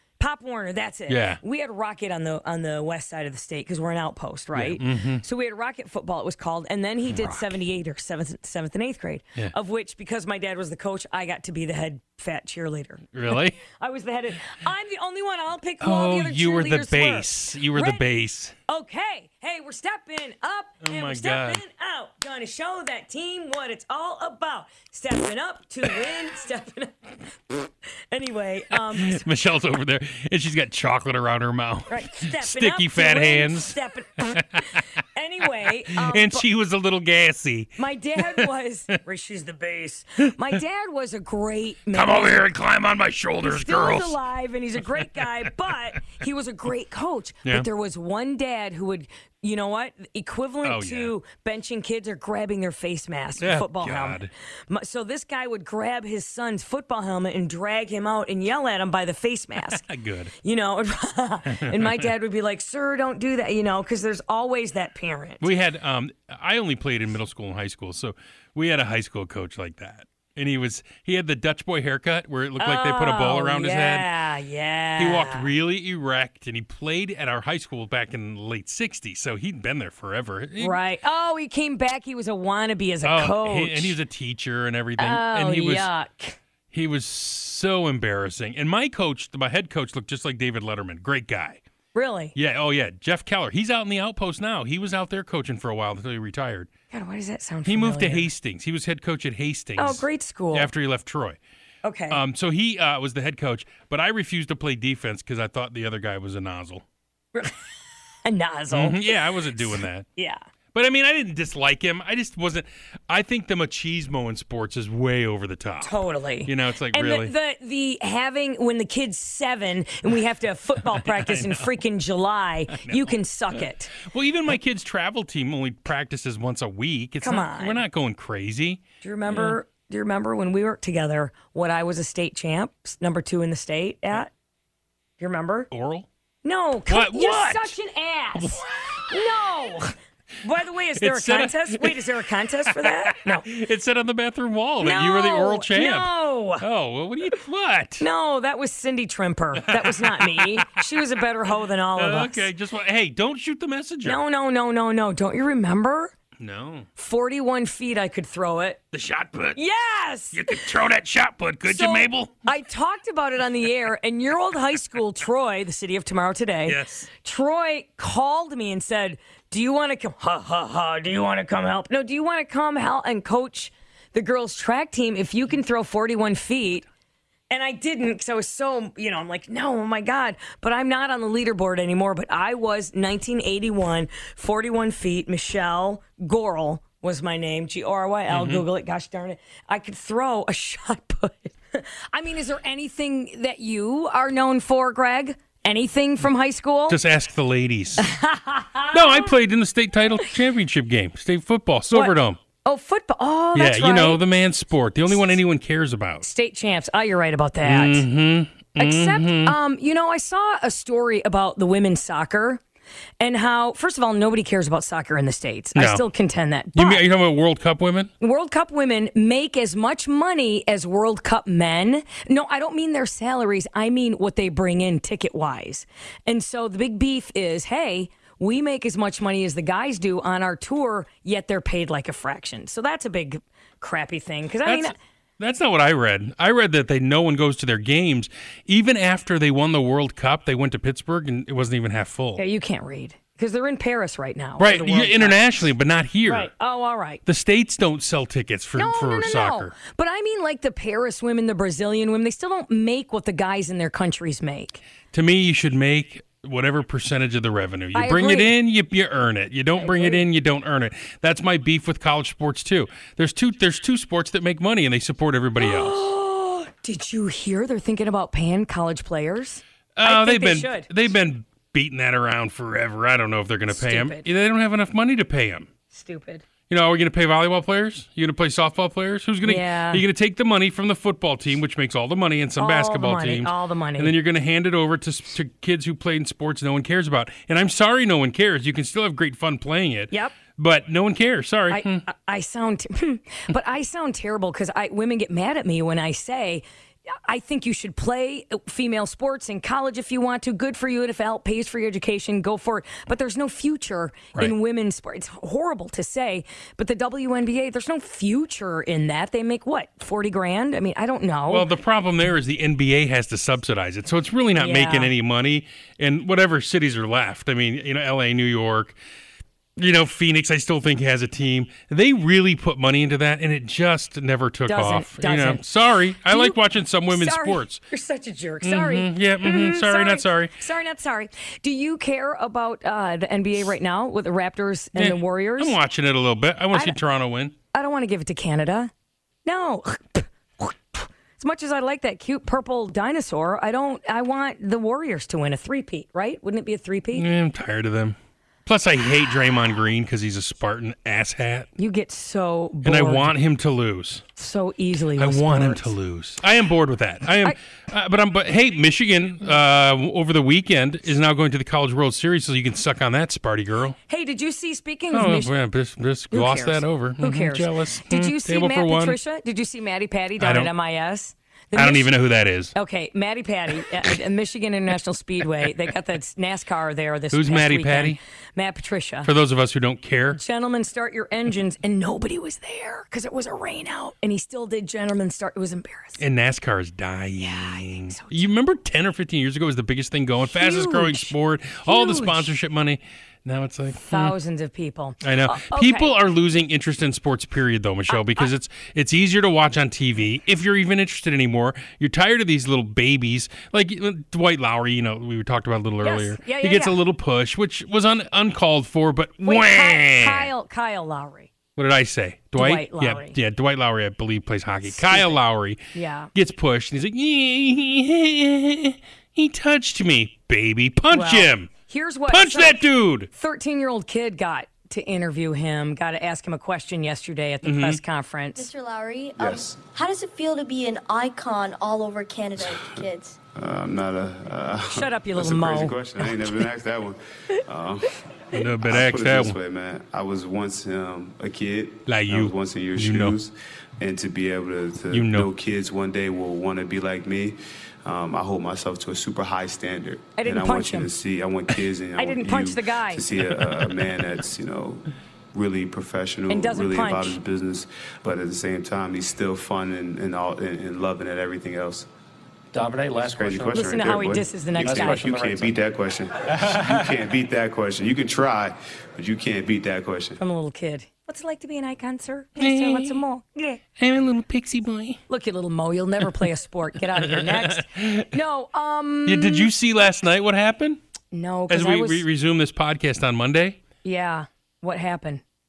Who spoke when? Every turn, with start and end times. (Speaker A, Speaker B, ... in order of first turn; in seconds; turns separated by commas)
Speaker A: 0.2-18.0, Speaker B: 1.1-1.4, Speaker B: 4.5-5.2, Speaker B: 7.1-7.5, Speaker B: 13.1-13.6, Speaker B: 15.8-18.5, Speaker A: 18.7-27.0, Speaker B: 20.8-21.6, Speaker A: 27.5-29.2, Speaker B: 28.9-34.9, Speaker A: 31.9-36.5, Speaker B: 35.9-38.5, Speaker A: 37.8-42.4, Speaker B: 41.9-44.2, Speaker A: 43.4-59.8, Speaker B: 44.9-45.5, Speaker B: 50.6-51.1, Speaker B: 53.4-54.3, Speaker B: 59.7-60.3, Speaker A: 60.4-65.4, Speaker B: 61.5-62.1, Speaker B: 65.4-74.1, Speaker A: 72.6-75.5, Speaker B: 75.0-80.8, Speaker A: 80.6-84.0, Speaker B: 83.0-85.9, Speaker A: 85.0-86.4, Speaker B: 86.7-91.6, Speaker A: 92.0-92.3, Speaker B: 92.3-96.7, Speaker A: 96.9-98.3, Speaker B: 97.7-101.4, Speaker A: 99.8-100.7, Speaker A: 101.8-102.2, Speaker B: 102.1-106.8, Speaker A: 107.3-110.4, Speaker B: 108.7-110.1, Speaker B: 110.7-117.3, Speaker A: 115.8-124.0, Speaker B: 120.9-121.7, Speaker B: 122.7-129.6, Speaker A: 127.2-127.8, Speaker A: 129.0-134.3, Speaker A: 135.2-135.7, Speaker B: 135.7-136.1, Speaker A: 136.4-143.5, Speaker B: 136.9-137.8, Speaker B: 138.3-139.0, Speaker B: 141.0-148.0, Speaker A: 144.8-146.6, Speaker A: 148.0-152.5, Speaker B: 149.6-151.0, Speaker B: 152.0-154.2, Speaker A: 154.0-156.1, Speaker B: 156.4-156.9, Speaker A: 157.0-158.8, Speaker B: 158.9-159.6, Speaker A: 159.6-160.6, Speaker B: 160.3-162.3, Speaker A: 161.7-176.8, Speaker B: 166.7-167.1, Speaker A: 177.5-197.0, Speaker B: 188.3-188.6, Speaker B: 196.9-198.1, Speaker A: 198.0-199.3, Speaker B: 198.9-202.4, Speaker A: 201.9-204.2, Speaker B: 203.6-206.2, Speaker A: 206.2-208.1, Speaker B: 207.6-209.6, Speaker A: 208.8-212.6, Speaker A: 213.2-217.0, Speaker B: 215.8-216.1, Speaker B: 216.8-218.1, Speaker A: 218.2-234.9, Speaker B: 234.7-242.4, Speaker A: 242.4-245.4, Speaker B: 244.6-246.5, Speaker A: 246.2-247.2, Speaker B: 247.3-249.8, Speaker A: 248.8-254.8, Speaker B: 255.1-266.1, Speaker A: 257.9-258.6, Speaker A: 259.8-260.2, Speaker A: 265.6-270.9, Speaker B: 270.0-275.7, Speaker A: 273.7-274.2, Speaker A: 275.9-276.4, Speaker B: 276.7-292.1, Speaker A: 279.4-280.0, Speaker A: 282.6-284.1, Speaker A: 290.1-290.4, Speaker A: 291.7-296.6, Speaker A: 297.3-311.7, Speaker B: 311.5-319.0, Speaker A: 314.6-315.1, Speaker B: 319.8-327.8, Speaker A: 324.7-325.6, Speaker A: 326.2-326.6, Speaker A: 327.1-335.8, Speaker B: 328.6-330.6, Speaker B: 334.9-337.5, Speaker A: 337.7-338.9, Speaker A: 339.5-347.2, Speaker B: 347.1-351.7, Speaker A: 351.8-353.3, Speaker B: 352.8-354.2, Speaker A: 354.4-355.9, Speaker B: 355.2-364.0, Speaker A: 364.1-365.5, Speaker B: 365.1-369.2, Speaker A: 366.3-372.1, Speaker B: 370.4-370.7, Speaker B: 371.8-372.7, Speaker A: 372.7-379.3, Speaker B: 377.3-378.2, Speaker B: 379.2-380.4, Speaker A: 380.3-386.2, Speaker B: 386.2-394.3, Speaker A: 387.4-388.4, Speaker A: 390.5-391.3, Speaker A: 391.9-392.5, Speaker A: 394.0-396.1, Speaker B: 395.2-410.5, Speaker A: 398.1-398.5, Speaker A: 406.0-407.0, Speaker A: 409.4-411.5, Speaker B: 411.8-415.8, Speaker A: 412.6-413.4, Speaker A: 414.9-415.4, Speaker A: 415.9-416.3, Speaker B: 416.4-421.7, Speaker A: 421.1-428.7, Speaker B: 422.3-423.3, Speaker B: 427.6-428.0, Speaker C: 428.6-433.4, Speaker D: 429.4-429.8, Speaker D: 432.6-462.1, Speaker A: 434.9-436.0, Speaker B: 438.5-439.6, Speaker B: 442.1-443.4, Speaker B: 445.1-445.5, Speaker A: 450.4-451.1, Speaker A: 452.2-453.3, Speaker A: 456.5-457.4, Speaker E: 462.7-464.1, Speaker D: 463.2-470.4, Speaker A: 463.7-465.3, Speaker E: 464.8-465.8, Speaker E: 466.5-467.2, Speaker A: 470.4-473.8, Speaker B: 472.6-473.2, Speaker B: 474.0-475.2, Speaker A: 475.3-479.7, Speaker B: 477.1-478.3, Speaker B: 479.3-481.0, Speaker A: 481.3-482.2, Speaker B: 481.7-483.8, Speaker A: 484.0-485.4